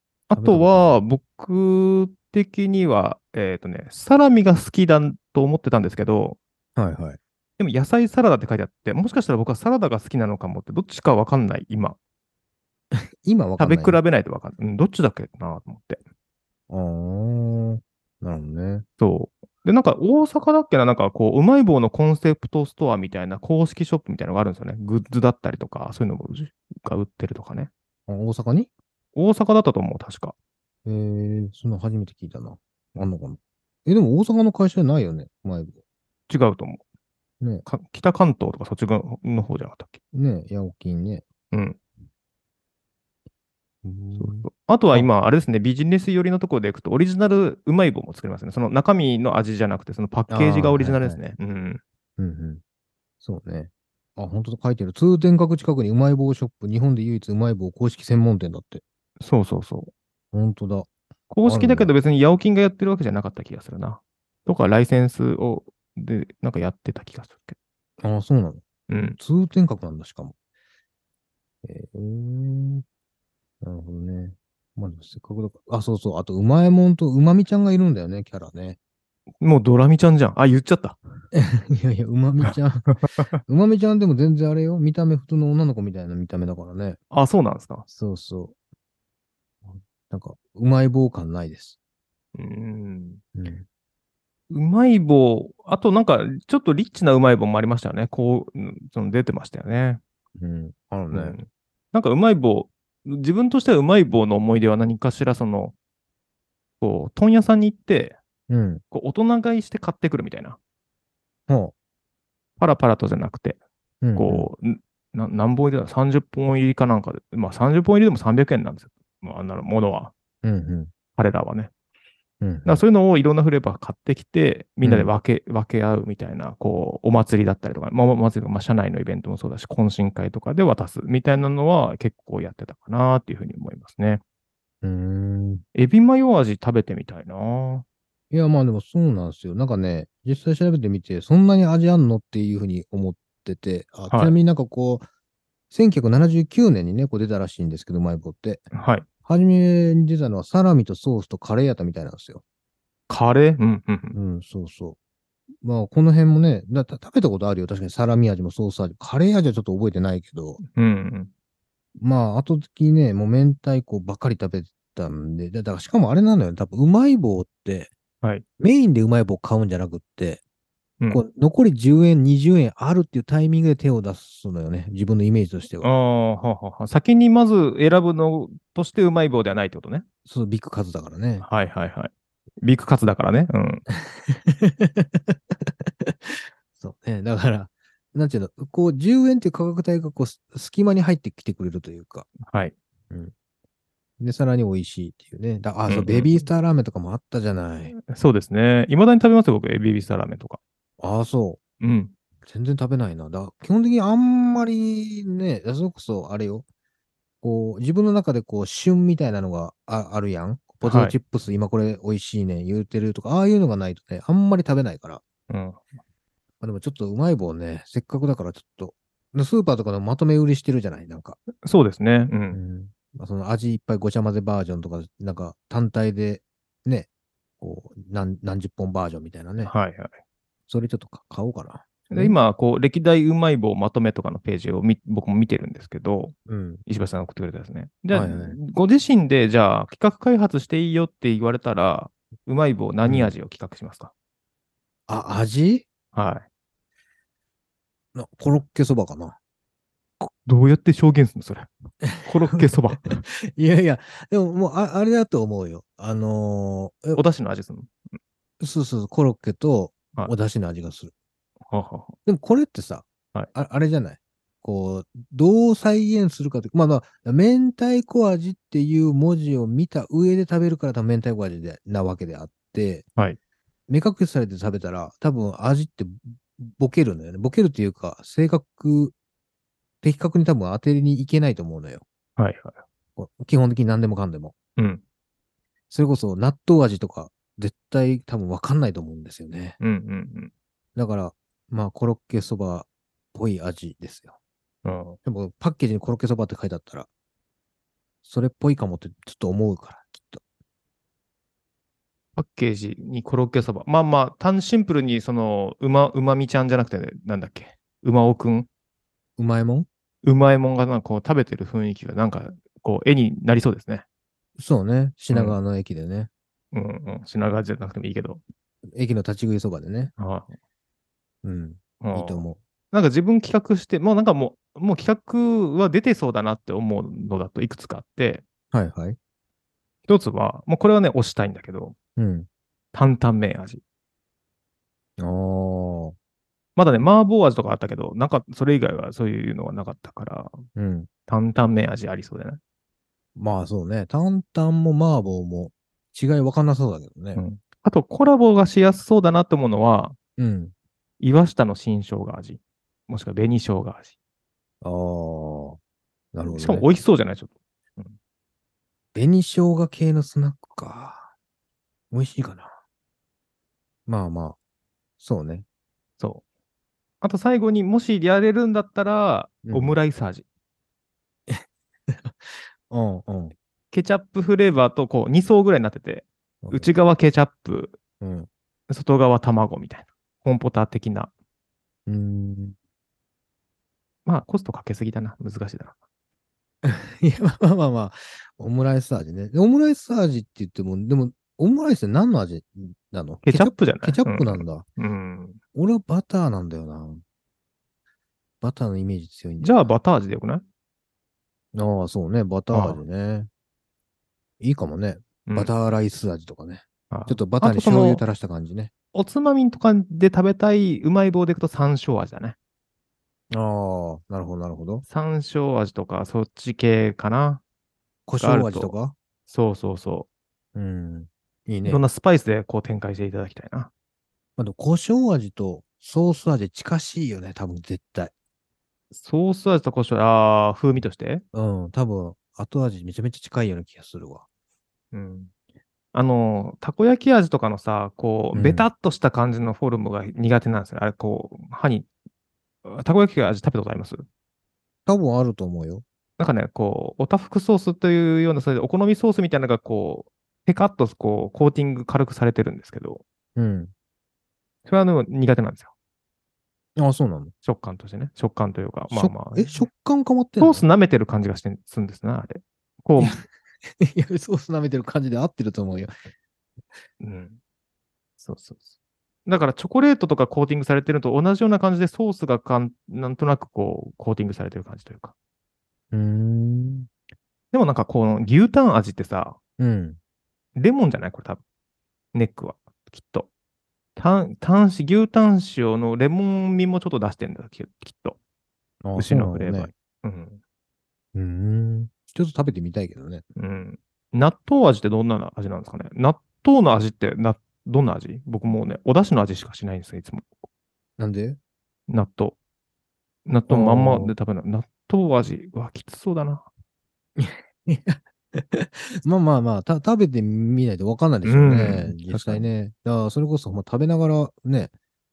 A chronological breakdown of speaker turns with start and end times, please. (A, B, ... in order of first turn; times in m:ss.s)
0:00.3-0:06.4 A
0:00.4-0:00.9 B
0:06.8-0:07.2 B
0:07.6-0:12.0 A
0:12.9-0:14.0 B
0:13.6-0:16.0 A
0:16.7-0:18.8 B
0:19.0-0:27.7 A
0:28.1-0:28.7 B
0:29.1-0:30.3 A
0:30.8-0:35.7 B
0:36.3-0:36.8 A
0:37.6-0:40.0 A
0:40.1-0:41.2 B
0:41.5-0:41.8 A
0:43.8-0:45.1 B
0:44.2-0:51.8 A
0:50.3-0:51.2 B
0:52.2-0:52.6 B
0:53.2-0:58.8 B
0:59.2-0:59.9 A
1:00.3-1:00.9 B
1:01.3-1:07.6 A
1:01.4-1:01.9 B
1:08.0-1:08.6 B
1:08.9-1:09.2 A
1:09.2-1:10.3 B
1:11.6-1:12.8 B
1:13.6-1:18.8 B
1:19.4-1:21.0 A
1:21.3-1:22.9 B
1:22.4-1:23.4 A
1:23.5-1:27.0 B
1:27.1-1:27.9 A
1:27.9-1:28.5 B
1:30.1-1:31.8 B
1:32.3-1:33.2 A
1:33.3-1:33.6 B
1:34.5-1:40.0 A
1:40.4-1:41.4 B
1:41.1-1:45.7 A
1:46.8-1:48.2 A
1:48.5-1:48.8 B
1:48.9-1:50.6 A
1:51.5-1:51.7 B
1:52.6-1:53.6 A
1:54.0-1:54.5 B
1:54.2-2:00.1 A
2:00.4-2:00.9 B
2:01.1-2:01.7 A
2:02.4-2:02.8 B
2:02.6-2:14.2 A
2:04.8-2:05.1 B
2:14.8-2:15.6 B
2:15.7-2:17.8 A
2:18.3-2:25.0 B
2:24.1-2:24.4 A
2:25.7-2:28.6 B
2:28.7-2:29.1 A
2:29.2-2:32.4 B
2:33.1-2:34.2 A
2:34.1-2:35.0 B
2:35.6-2:40.6 B
2:40.6-2:41.3 A
2:42.0-2:47.9 B
2:48.6-2:50.4 B
2:51.1-2:55.9 B
2:55.8-3:00.0 A
3:00.2-3:01.4 B
3:01.4-3:02.1 A
3:02.6-3:03.8 A
3:03.9-3:12.3 B
3:12.4-3:12.7 A
3:14.2-3:17.9 B
3:15.9-3:16.4 A
3:17.9-3:20.6 A
3:21.0-3:21.6 B
3:21.8-3:22.1 A
3:22.4-3:26.6 B
3:27.4-3:35.2 B
3:30.8-3:31.2 A
3:35.5-3:35.8 A
3:36.6-3:41.4 B
3:41.6-3:42.6 A
3:42.5-3:47.1 B
3:47.6-3:49.7 B
3:49.6-3:50.1 A
3:50.7-3:52.4 B
3:52.1-3:56.3 A
3:56.5-3:56.8 B
3:56.8-4:04.1 A
3:58.1-3:58.6 B
4:03.0-4:03.3 B
4:05.1-4:05.8 B
4:06.1-4:06.4 A
4:08.1-4:09.4 B
4:10.2-4:13.2 A
4:12.0-4:17.2 B
4:17.1-4:18.0 A
4:18.6-4:21.1 B
4:21.7-4:22.2 A
4:22.2-4:33.1 B
4:33.9-4:39.1 B
4:40.0-4:42.0 B
4:42.4-4:42.8 A
4:43.2-4:44.5 B
4:44.8-4:45.0 A
4:45.9-4:49.8 B
4:49.8-4:50.5 A
4:51.0-4:54.4 B
4:54.8-4:55.2 A
4:55.2-4:57.1 B
4:58.2-5:00.4 B
5:02.4-5:08.7 A
5:09.4-5:09.9 B
5:10.2-5:14.0 A
5:14.6-5:16.3 B
5:15.3-5:15.6 A
5:16.7-5:18.4 A
5:18.9-5:20.1 B
5:20.2-5:20.5 A
5:21.4-5:22.6 B
5:22.0-5:28.4 A
5:28.7-5:29.2 B
5:30.1-5:32.0 A
5:32.2-5:32.5 B
5:32.9-5:33.8 A
5:35.2-5:36.2 B
5:36.8-5:40.6 A
5:40.8-5:41.1 B
5:41.3-5:42.6 A
5:43.4-5:47.4 B
5:47.3-5:50.2 A
5:50.4-5:50.7 B
5:51.2-5:54.1 A
5:54.8-5:55.8 B
5:56.3-5:56.9 B
5:56.5-5:58.2 A
5:59.1-6:01.3 B
6:02.1-6:02.7 B
6:04.1-6:04.6 B
6:05.2-6:05.6 B
6:07.2-6:10.4 A
6:09.6-6:10.0 B
6:11.5-6:13.5 B
6:13.9-6:18.0 A
6:16.6-6:16.9 B
6:18.2-6:18.5 B
6:18.9-6:21.3 A
6:22.1-6:22.7 B
6:24.2-6:26.0 A
6:26.8-6:34.8 B
6:33.4-6:35.6 A
6:35.7-6:37.2 B
6:38.6-6:39.9 B
6:39.6-6:40.6 A
6:41.7-6:43.5 B
6:42.7-6:43.0 A
6:44.6-6:48.9 B
6:47.1-6:48.2 A
6:49.1-6:52.6 A
6:53.5-6:55.0 B
6:55.1-6:57.6 A
6:58.3-6:59.1 B
6:58.4-6:58.9 A
6:59.5-7:00.3 A
7:00.7-7:02.0 B
7:01.8-7:03.9 A
7:04.6-7:08.3 B
7:09.1-7:11.4 A
7:11.5-7:14.4 B
7:15.1-7:15.5 A
7:16.1-7:22.1 A
7:18.5-7:18.9 B
7:22.8-7:24.2 A
7:25.1-7:26.0 B
7:26.4-7:33.2 A
7:33.6-7:33.9 B
7:34.8-7:35.9 A
7:37.0-7:37.5 B
7:37.6-7:39.9 A
7:39.1-7:40.8 B
7:40.6-7:43.4 A
7:43.2-7:43.4 B
7:44.0-7:46.1 B
7:47.2-7:47.6 A
7:48.4-7:48.9 A
7:49.4-7:55.3 A
7:56.1-7:57.1 B
7:57.7-7:59.6 A
7:59.8-8:00.2 B
8:00.8-8:01.6 A
8:02.3-8:03.5 A
8:04.2-8:08.4 A
8:09.0-8:09.9 B
8:09.2-8:10.6 A
8:11.3-8:13.4 B
8:13.6-8:20.5 A
8:21.2-8:21.6 B
8:22.1-8:22.6 A
8:23.4-8:26.7 A
8:23.7-8:24.3 B
8:27.4-8:34.9 B
8:31.4-8:32.7 A